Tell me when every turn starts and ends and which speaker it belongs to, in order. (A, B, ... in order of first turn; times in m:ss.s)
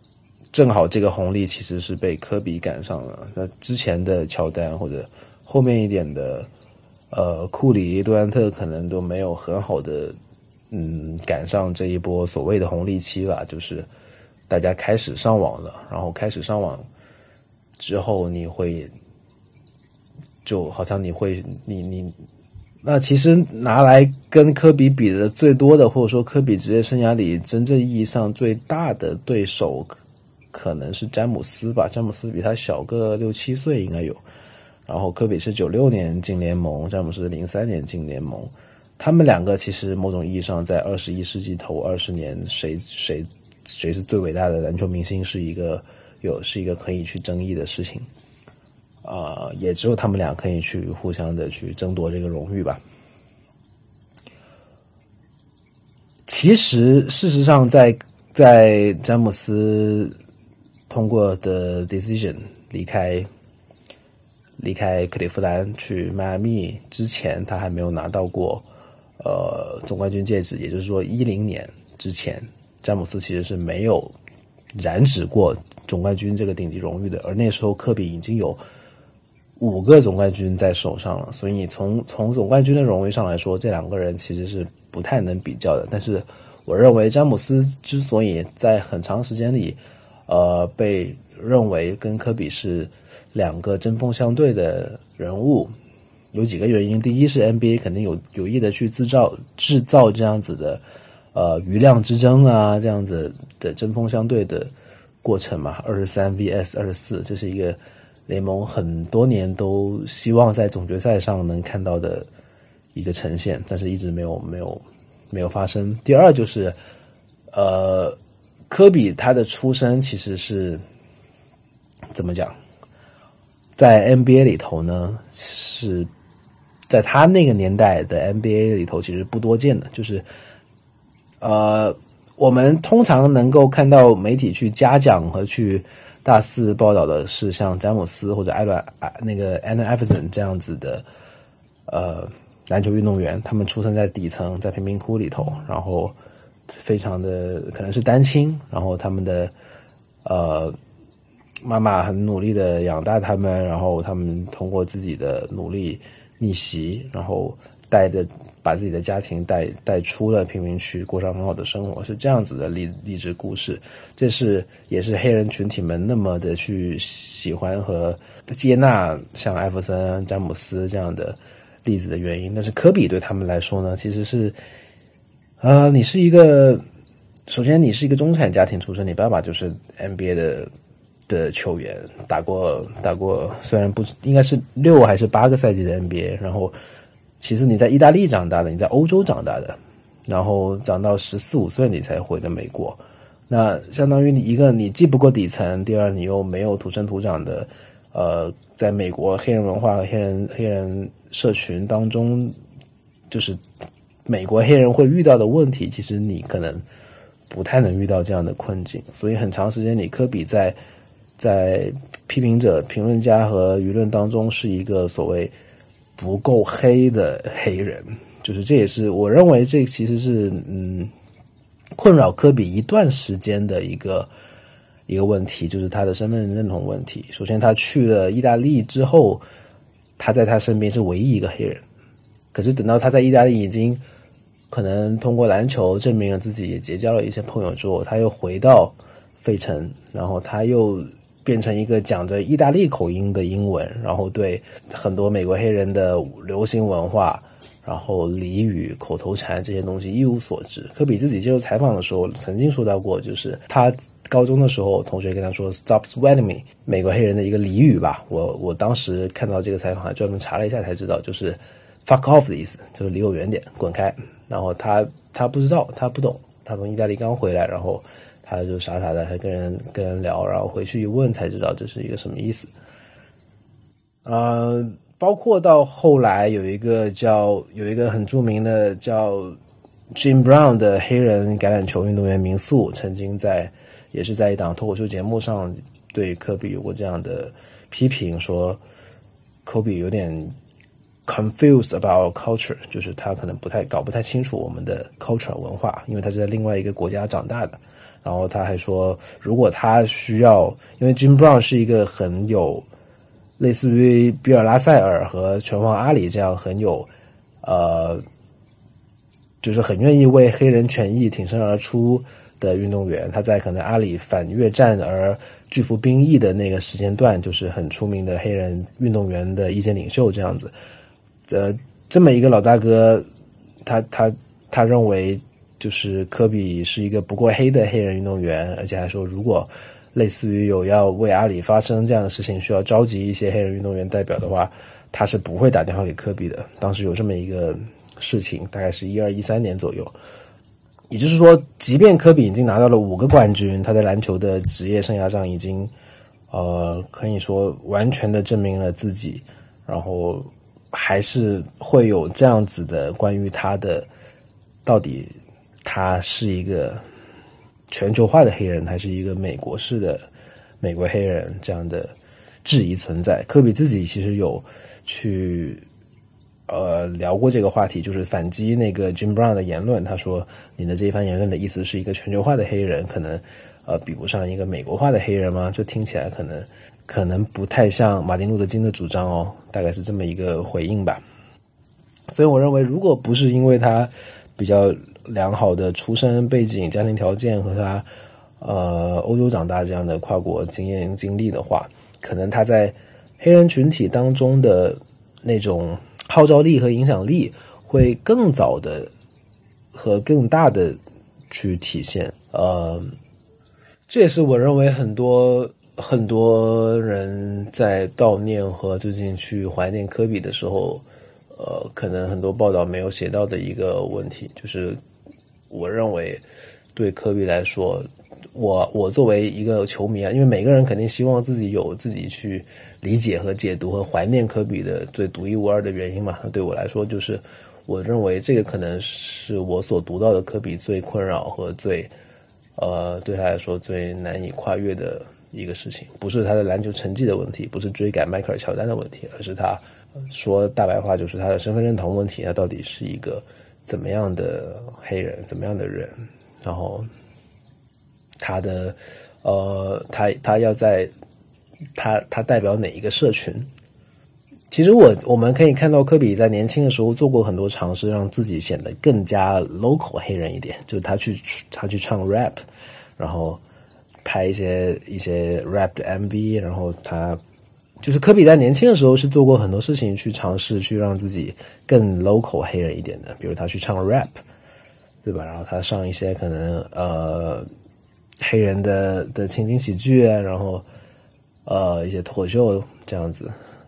0:00.5-0:06.5 A
0:07.1-0:10.2 A
0:10.7-0:13.9 A
0:14.5-0:16.8 A
0:17.8-0:18.9 A
0:20.4-0:22.1 A
0:22.8-0:30.0 A
0:30.5-0:34.2 A
0:34.9-0:48.1 A
0:49.0-0:52.8 A
0:56.3-1:00.1 A
1:00.9-1:03.3 A
1:04.6-1:08.6 A
1:09.2-1:14.1 A
1:14.8-1:18.6 A
1:19.6-1:35.7 A
1:36.3-1:40.8 A
1:41.3-1:44.7 A
1:45.2-1:52.3 A
1:52.9-1:56.8 A
1:57.5-1:58.2 A
1:58.7-2:00.8 A
2:02.1-2:02.5 A
2:03.8-2:06.1 A
2:06.9-2:10.2 A
2:11.4-2:21.0 A
2:21.9-2:26.1 A
2:26.7-2:29.5 A
2:30.2-2:30.8 A
2:31.6-2:54.6 A
2:55.6-2:56.8 A
2:57.5-3:00.7 A
3:01.3-3:06.7 A
3:07.4-3:22.5 A
3:23.3-3:23.6 A
3:24.3-3:26.8 A
3:27.5-3:30.8 A
3:31.4-3:35.5 A
3:36.2-3:41.1 A
3:42.0-3:44.3 A
3:45.1-3:49.4 A
3:50.2-3:51.8 A
3:52.5-3:54.0 A
3:54.7-4:32.7 A
4:34.2-4:39.6 A
4:40.1-4:48.8 A
4:49.6-4:50.5 A
4:51.2-5:02.8 A
5:03.6-5:07.1 A
5:07.6-5:08.2 A
5:09.6-5:20.7 A
5:21.5-5:23.2 A
5:23.8-5:40.1 A
5:41.1-5:45.9 A
5:46.5-5:54.1 A
5:54.8-5:55.3 A
5:55.8-5:57.0 A
5:57.9-6:00.2 A
6:00.8-6:02.1 A
6:02.6-6:05.8 A
6:06.7-6:21.2 A
6:22.3-6:28.0 A
6:28.6-6:39.1 A
6:39.9-6:41.0 A
6:41.5-6:43.1 A
6:44.1-6:55.0 A
6:55.7-6:56.4 A
6:56.9-7:12.1 A
7:12.8-7:27.1 A
7:28.4-7:31.1 A
7:32.0-7:33.7 A
7:34.7-7:42.6 A
7:43.2-7:43.6 A
7:44.2-7:47.4 A
7:48.0-7:54.4 A
7:55.2-7:57.6 A
7:58.4-8:00.8 A
8:01.6-8:03.5 A